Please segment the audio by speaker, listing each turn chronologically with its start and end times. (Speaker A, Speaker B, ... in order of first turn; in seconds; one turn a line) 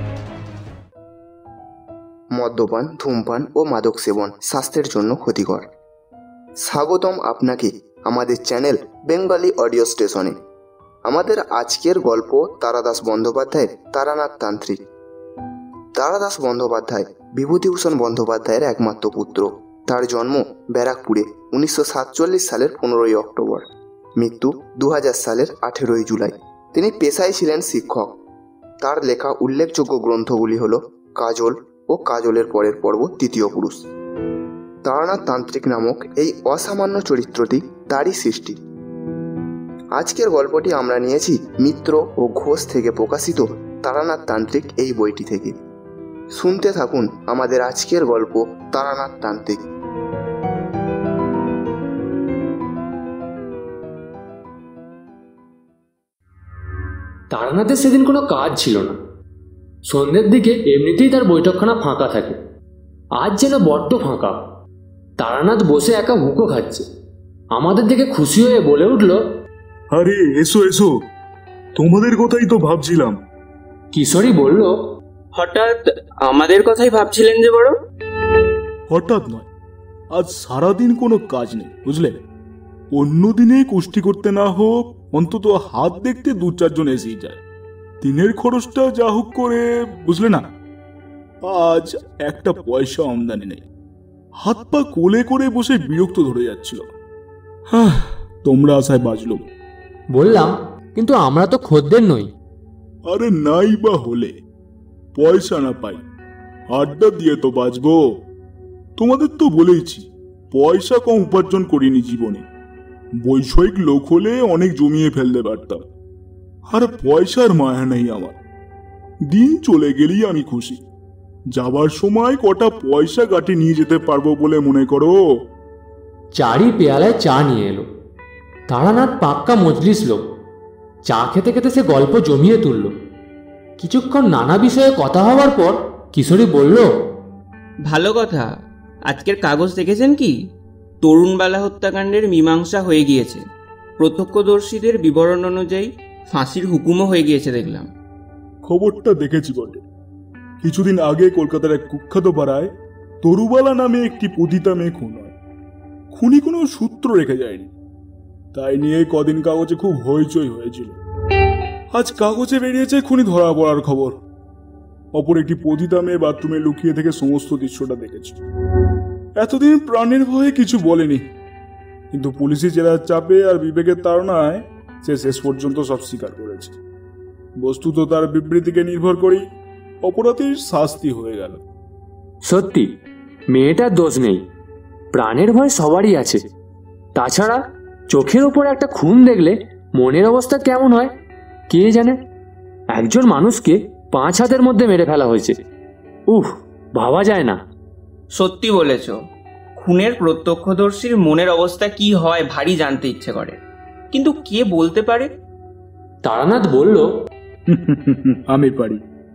Speaker A: 2.3-5.7
Speaker A: 6.6-10.3
Speaker A: 11.0-14.8
Speaker A: 15.9-23.6
Speaker A: 24.2-28.1
Speaker A: 28.8-33.8
Speaker A: 34.8-38.6
Speaker A: 39.9-45.5
Speaker A: 46.3-49.6
Speaker B: 57.3-59.0
Speaker B: 59.9-62.4
Speaker B: 63.2-64.4
Speaker B: 65.2-66.8
Speaker B: 67.5-69.2
Speaker C: 69.9-70.9
Speaker C: 71.7-73.2
Speaker B: 73.9-74.7
Speaker D: 75.3-77.7
Speaker C: 78.9-79.5
Speaker C: 80.1-82.2
Speaker C: 82.9-87.4
Speaker C: 88.0-90.5
Speaker C: 91.4-93.6
Speaker C: 94.4-96.9
Speaker C: 97.7-99.5
Speaker B: 100.1-102.3
Speaker C: 103.1-104.3
Speaker C: 105.1-106.0
Speaker C: 106.7-108.0
Speaker C: 109.0-112.4
Speaker C: 113.2-115.9
Speaker C: 116.7-118.4
Speaker C: 119.2-120.8
Speaker C: 121.5-125.2
Speaker B: 126.3-127.9
Speaker B: 128.7-130.3
Speaker B: 131.1-132.9
Speaker B: 133.8-136.9
Speaker D: 137.8-138.5
Speaker D: 139.1-140.3
Speaker D: 141.0-143.4
Speaker D: 144.0-147.9
Speaker C: 148.6-149.8
Speaker C: 150.6-152.7
Speaker C: 153.2-155.3
Speaker C: 156.1-157.7
Speaker C: 158.5-161.0
Speaker C: 161.9-164.2
Speaker C: 165.1-168.4
Speaker C: 169.4-171.3
Speaker C: 172.1-176.8
Speaker C: 177.6-179.4
Speaker C: 180.0-181.6
Speaker B: 182.4-182.9
Speaker B: 183.5-184.4
Speaker B: 185.1-186.4
Speaker B: 187.1-191.1
Speaker B: 191.7-192.2
Speaker B: 192.9-195.5
Speaker B: 196.3-197.6
Speaker D: 198.3-199.2
Speaker D: 199.8-203.6
Speaker D: 204.1-205.3
Speaker B: 206.2-207.1
Speaker C: 207.7-209.0